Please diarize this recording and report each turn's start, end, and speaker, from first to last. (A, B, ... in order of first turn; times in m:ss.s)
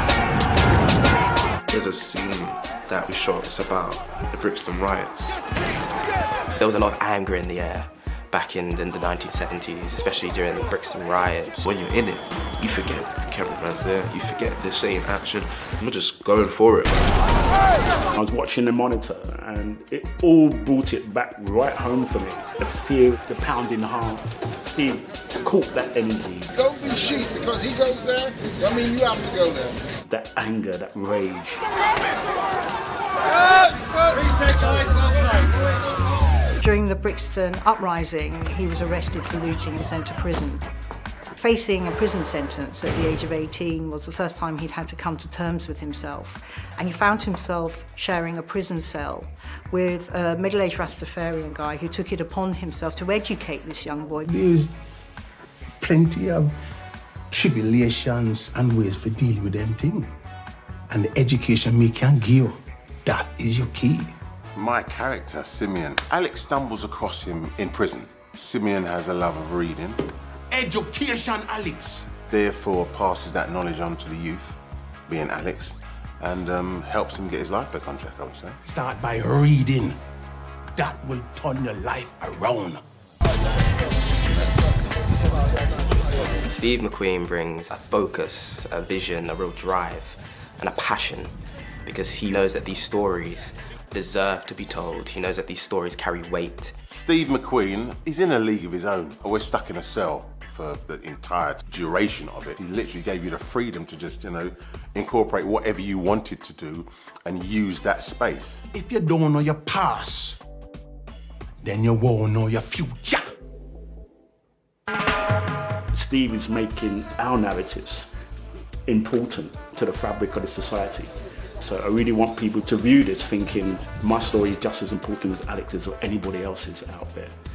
0:01.7-0:05.4 A
0:06.6-0:11.6 B
0:11.6-0:17.1 A
0:18.2-0:27.6 C
0:28.2-0:29.5 C
0:30.1-0:31.6 C
0:36.6-0:40.6 D
0:41.3-0:54.3 D
0:54.3-0:54.7 E
0:55.8-0:56.5 E
0:57.3-1:00.1 E
1:00.9-1:04.1 E
1:04.6-1:10.0 F
1:10.5-1:12.1 E
1:12.3-1:18.6 F
1:18.6-1:20.0 E
1:20.8-1:22.8 E
1:26.4-1:31.3 B
1:31.8-1:36.7 B
1:36.9-1:48.6 F
1:48.7-1:50.4 E
1:51.6-1:53.2 E
1:55.9-1:58.1 C
1:58.9-2:07.3 C